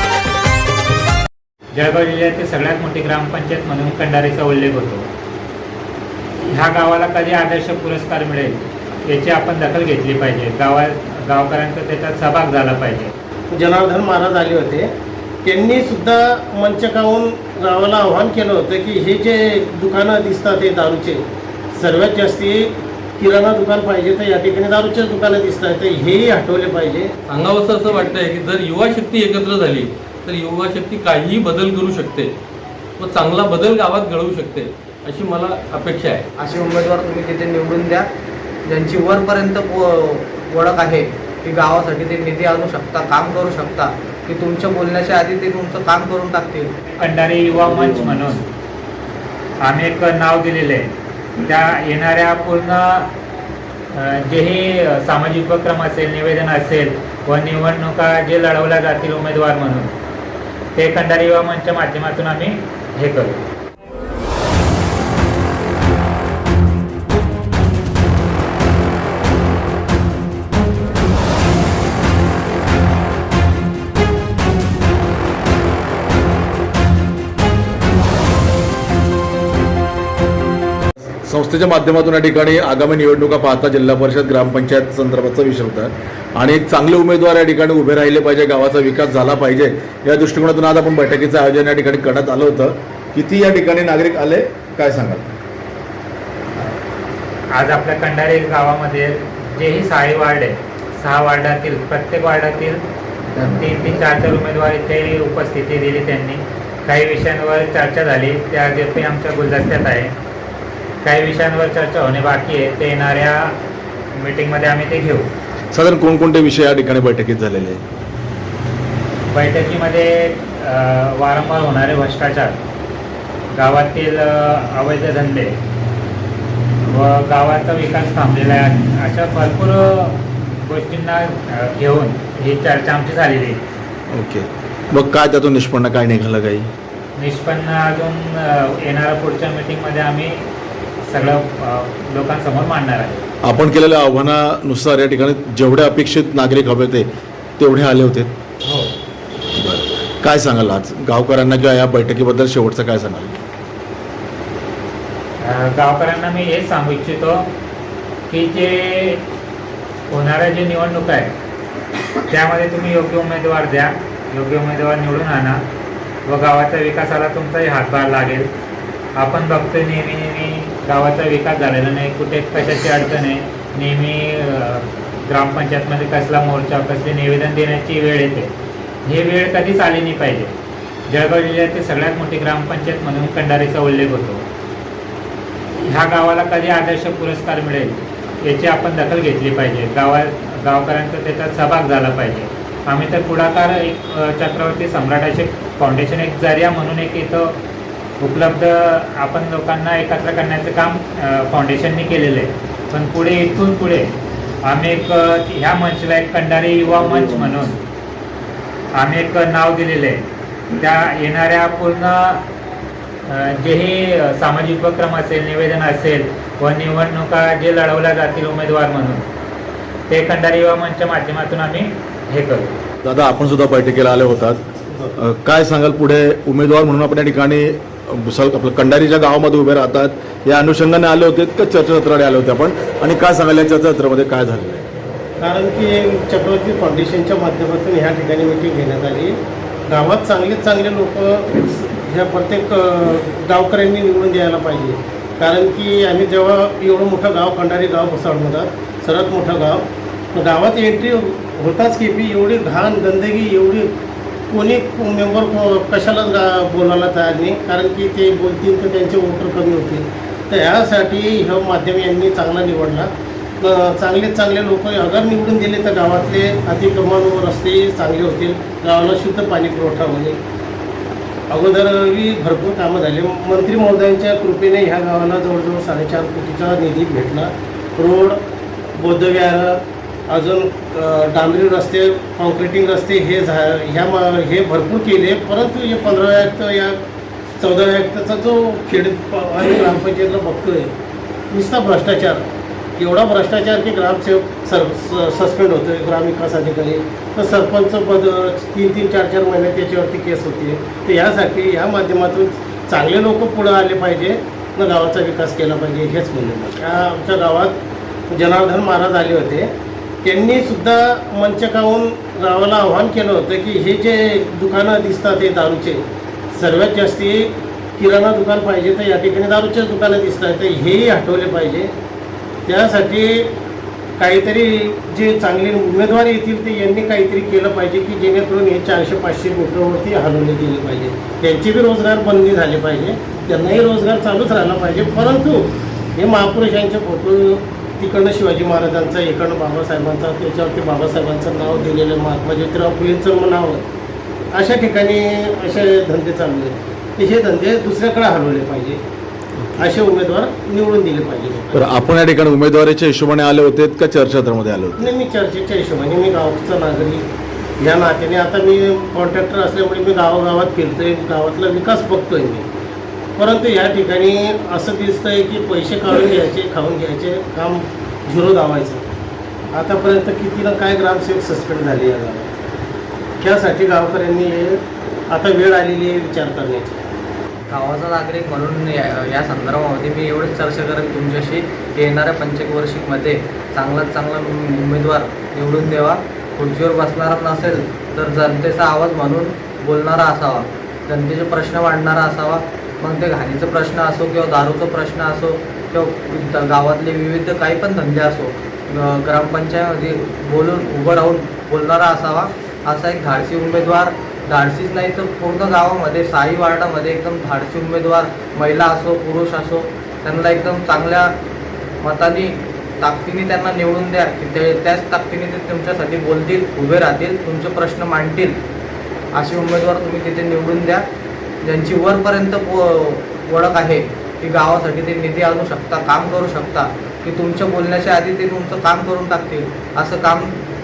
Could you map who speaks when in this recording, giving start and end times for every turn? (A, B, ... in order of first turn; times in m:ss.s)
0:01.7-0:05.0 A
0:06.5-0:13.1 A
0:13.5-0:14.9 B
0:15.4-0:21.2 B
0:21.7-0:27.1 B
0:27.3-0:32.3 C
0:33.0-0:36.3 C
0:36.4-0:38.1 D
0:38.6-0:46.7 D
0:47.0-0:48.4 A
0:49.6-0:50.9 A
0:51.4-0:53.1 A
0:53.9-0:59.9 A
1:00.7-1:03.4 A
1:21.2-1:35.3 E
1:37.5-1:42.8 A
1:43.4-1:43.8 E
1:43.4-1:50.1 A
1:51.0-1:53.5 A
1:54.1-1:55.3 A
1:55.7-1:57.8 E
1:59.3-2:02.6 A
2:03.5-2:05.5 A
2:06.9-2:13.6 A
2:14.1-2:16.7 E
2:17.2-2:20.4 A
2:21.1-2:23.2 A
2:23.4-2:27.1 E
2:27.6-2:28.3 E
2:29.6-2:33.4 E
2:35.4-2:37.5 A
2:38.3-2:39.2 A
2:40.1-2:41.3 A
2:42.3-2:45.6 A
2:46.2-2:48.5 A
2:49.2-2:58.5 A
2:59.0-3:00.5 A
3:01.1-3:04.4 A
3:05.8-3:17.6 A
3:18.2-3:24.1 A
3:24.6-3:27.8 A
3:28.9-3:30.2 A
3:30.7-3:32.4 A
3:33.3-3:39.2 A
3:40.1-3:42.7 A
3:43.0-3:44.6 E
3:45.2-3:54.8 E
3:55.4-3:59.4 B
3:59.9-4:13.9 B
4:14.5-4:23.1 B
4:23.6-4:30.4 B
4:31.5-4:38.4 B
4:39.0-4:47.0 B
4:47.6-4:50.9 B
4:51.5-4:52.4 B
4:53.0-5:07.8 B
5:08.3-5:09.7 B
5:10.2-5:16.0 B
5:16.5-5:21.9 B
5:22.6-5:23.5 B
5:24.2-5:43.8 B
5:44.5-5:49.0 B
5:49.6-5:49.9 E
5:49.8-5:51.9 B
5:51.7-5:55.0 E
5:55.0-5:57.2 B
5:57.8-6:02.6 B
6:03.4-6:09.0 B
6:09.7-6:12.5 B
6:13.4-6:16.9 B
6:17.7-6:51.3 D
6:52.0-6:58.6 D
6:59.3-7:01.0 D
7:01.6-7:10.6 D